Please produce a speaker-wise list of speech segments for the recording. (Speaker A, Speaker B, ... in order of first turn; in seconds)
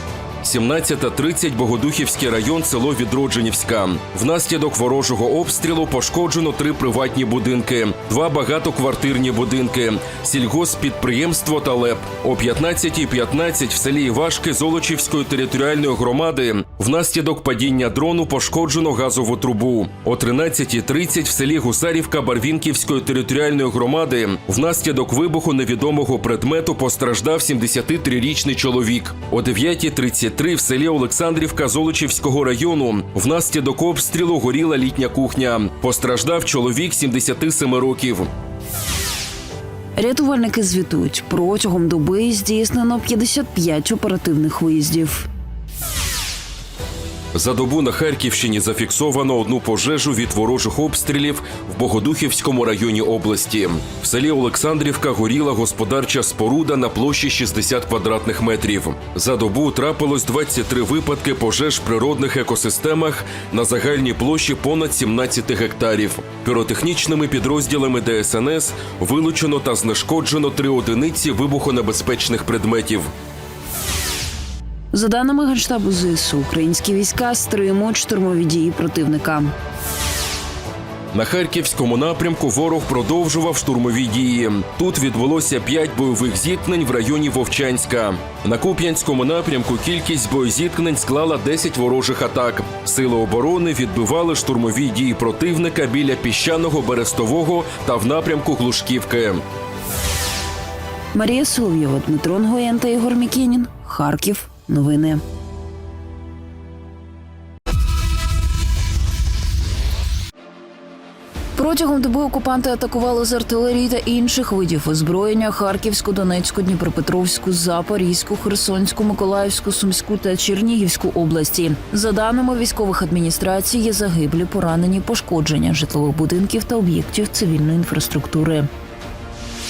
Speaker A: 0.4-38.3, 47.3-73.1, 81.1-99.4
Speaker B: 40.0-45.3, 74.9-79.5, 101.1-105.2, 111.5-128.7